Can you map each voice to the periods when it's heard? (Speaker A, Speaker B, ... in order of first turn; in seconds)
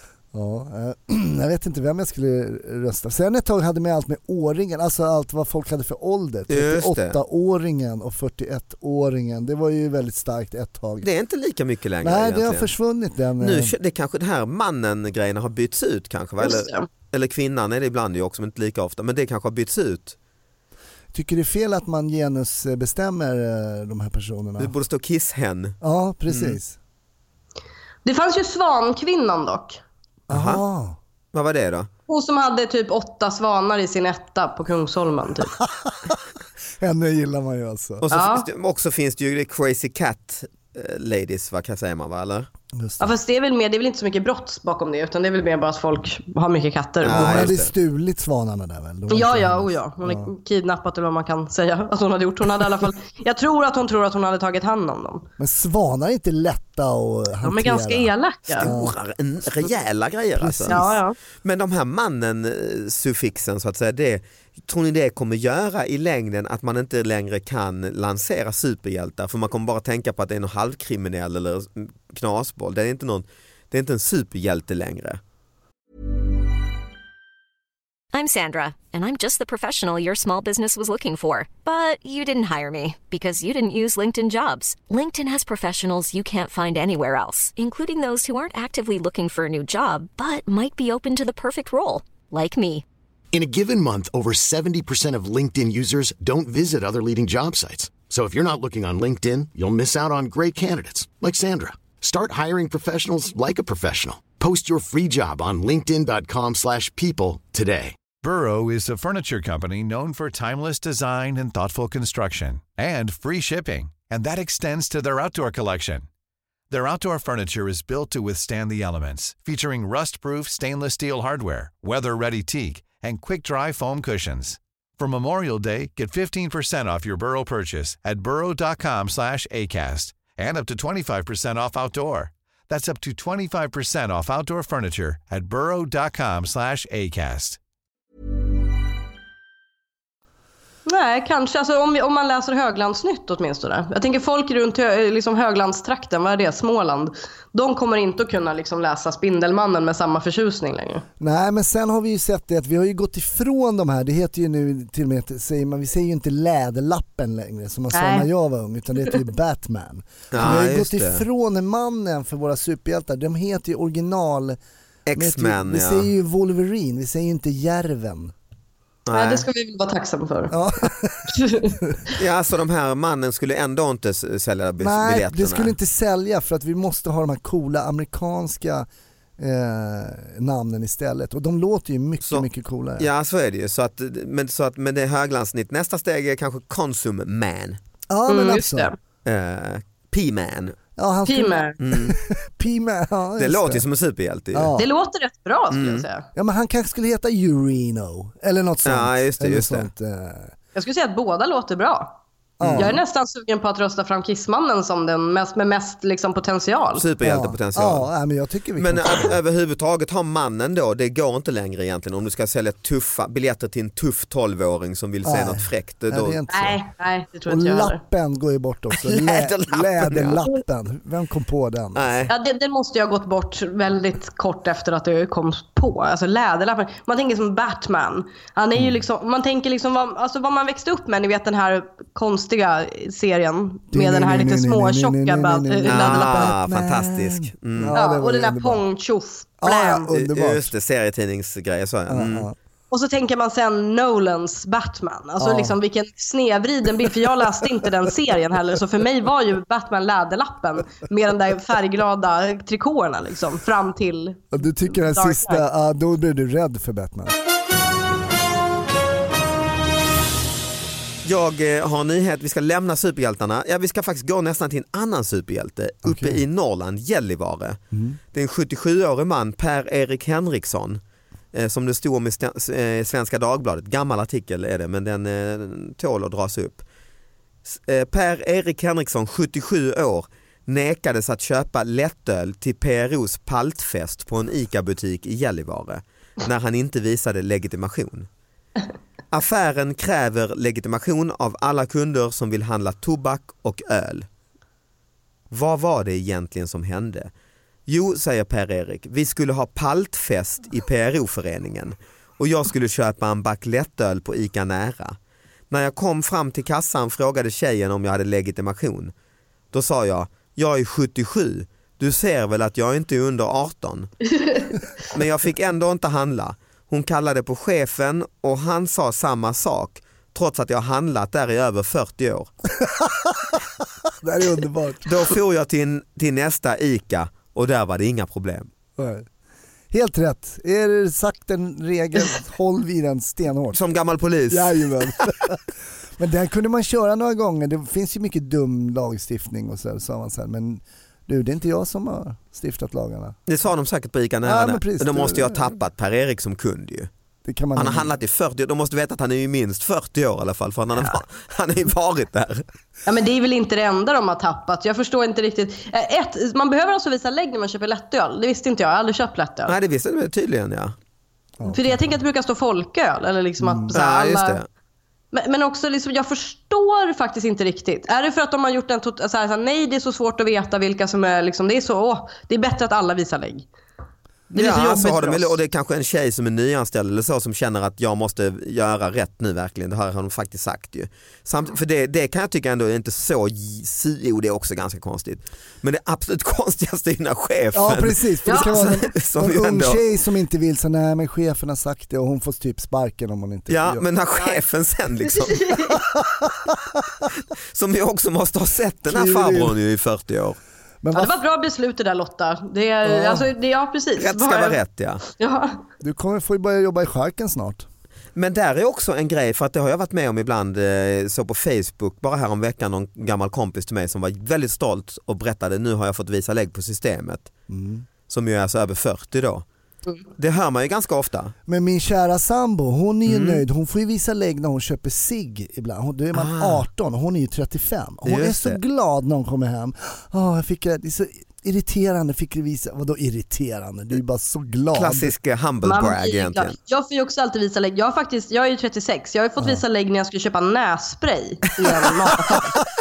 Speaker A: 0.3-11.1, 12.0-13.7, 21.1-24.7, 25.8-26.8, 30.3-31.0, 35.6-36.1, 36.8-38.0, 42.7-43.1, 47.1-50.3, 55.4-59.0, 60.4-61.0, 151.2-164.6, 165.2-168.3, 170.5-172.0, 174.8-178.9, 179.4-183.1, 188.1-188.9, 191.0-193.8, 194.5-194.9, 196.3-200.5, 202.6-203.0, 207.2-209.4, 215.2-216.8, 217.5-222.3, 233.9-238.8, 239.6-240.7, 242.1-242.6, 245.4-245.8, 254.5-257.4, 266.1-266.4, 267.9-268.2, 322.8-323.6, 324.2-325.2, 329.0-329.3, 329.9-333.8, 334.5-335.6, 336.2-343.4, 344.4-345.6, 347.4-348.1, 361.6-362.1, 363.6-363.9, 387.7-394.0, 399.1-399.8, 401.0-401.4, 403.1-403.5, 406.0-407.9, 417.7-418.1, 421.7-435.3
Speaker B: 6.5-7.2, 11.0-12.7, 13.4-20.1, 24.6-25.8, 26.3-26.6, 30.3-30.6, 31.3-31.9, 38.0-42.5, 47.0-47.7, 58.6-60.8, 61.4-75.2, 160.3-161.2, 165.1-166.1, 169.1-169.5, 172.1-175.7, 183.0-187.8, 189.2-190.8, 191.8-192.2, 193.4-194.8, 195.7-196.1, 198.8-199.9, 202.6-202.9, 207.0-208.1, 208.8-216.4, 218.9-220.4, 221.9-222.3, 235.9-237.9, 240.1-242.5, 261.2-267.8, 268.3-271.0, 271.5-276.8, 277.7-288.3, 289.3-294.3, 295.5-297.3, 297.9-305.2, 305.7-309.1, 309.7-314.1, 315.1-322.6, 325.1-328.7, 333.7-335.5, 343.5-347.1, 347.8-352.6, 359.7-360.9, 363.9-364.7, 374.5-390.0, 393.7-396.0, 397.7-400.6, 404.2-405.2, 408.4-417.5, 418.3-419.6, 420.4-421.5, 423.3-423.6, 426.3-426.9, 428.2-428.8, 434.9-436.8
Speaker C: 16.4-16.9, 28.1-29.8, 32.1-35.5, 38.1-38.5, 43.0-47.5, 49.1-55.3, 57.4-58.7, 60.7-61.2, 140.9-151.1, 157.9-158.3, 169.1-170.6, 171.3-171.8, 188.3-189.0, 191.3-191.8, 194.8-196.3, 200.8-202.2, 202.8-207.0, 216.5-218.0, 222.3-236.4, 237.9-240.1, 242.9-255.7, 353.1-359.7, 361.7-364.6, 365.3-373.7, 374.5-375.6, 388.5-388.7, 395.3-396.0, 401.1-404.8, 405.3-405.8, 435.8-442.7
Speaker D: 78.1-92.8
Speaker E: 93.3-108.0
Speaker F: 108.2-116.1, 116.7-137.6